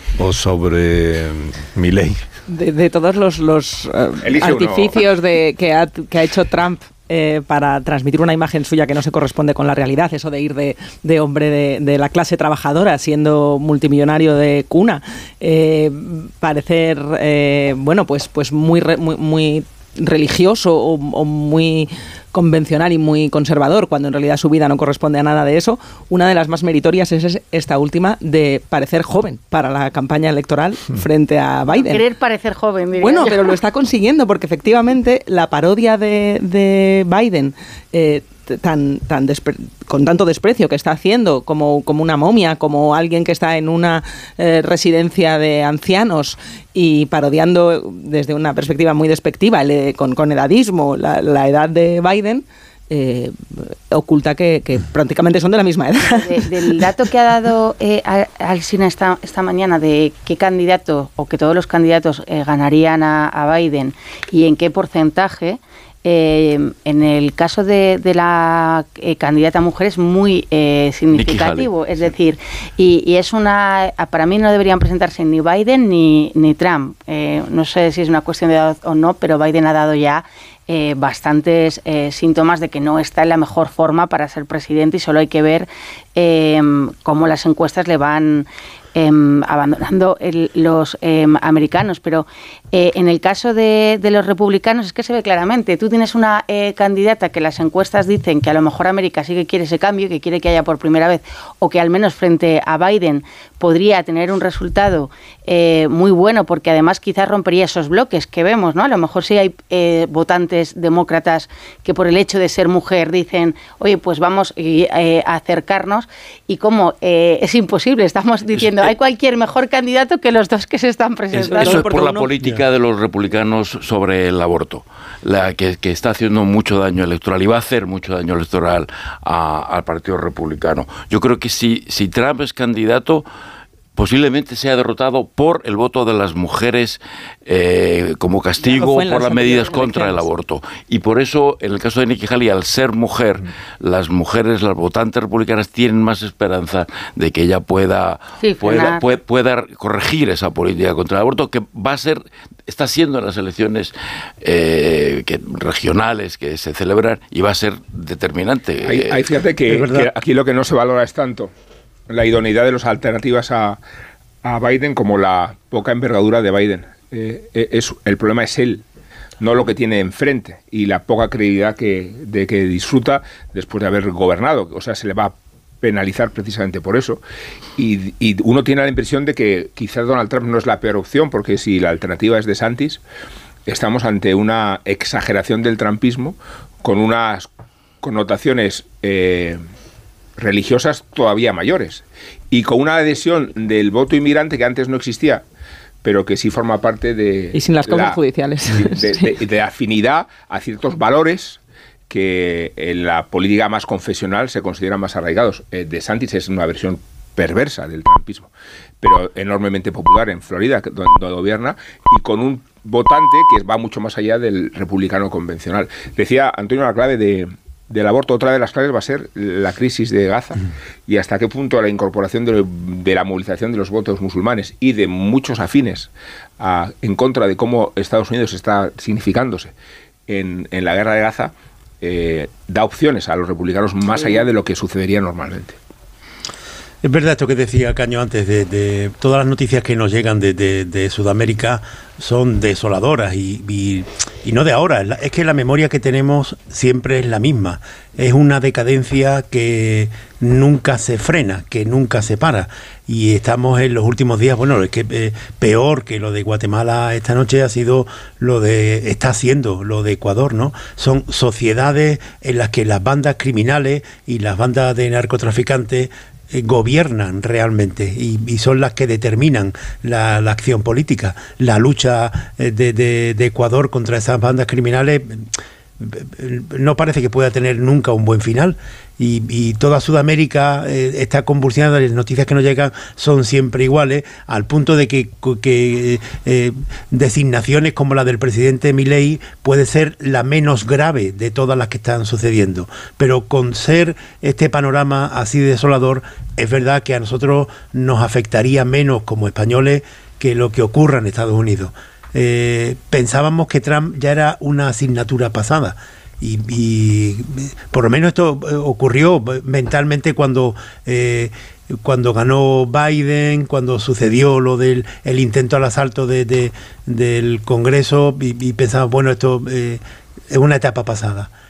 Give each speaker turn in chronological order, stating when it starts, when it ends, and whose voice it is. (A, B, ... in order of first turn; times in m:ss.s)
0:00.2-0:02.2 A
0:02.5-0:32.0 B
0:04.2-0:05.0 C
0:31.7-0:33.5 D
0:33.0-0:56.9 B
0:56.1-2:01.8 D
1:11.1-1:11.7 E
1:58.6-1:58.9 E
2:01.3-2:13.3 E
2:01.5-2:02.3 B
2:14.0-2:39.2 E
2:18.6-2:20.3 B
2:28.4-2:29.0 D
2:38.9-2:41.5 C
2:39.7-2:40.1 F
2:42.1-2:43.8 C
2:44.4-2:48.8 C
2:49.4-2:57.2 C
2:57.8-3:03.0 C
3:03.7-3:07.5 C
3:08.0-3:09.6 C
3:10.4-3:15.4 C
3:16.0-3:18.2 C
3:17.5-3:19.4 B
3:18.8-3:28.5 C
3:29.0-3:49.7 C
3:50.3-3:55.8 C
3:57.0-5:21.5 F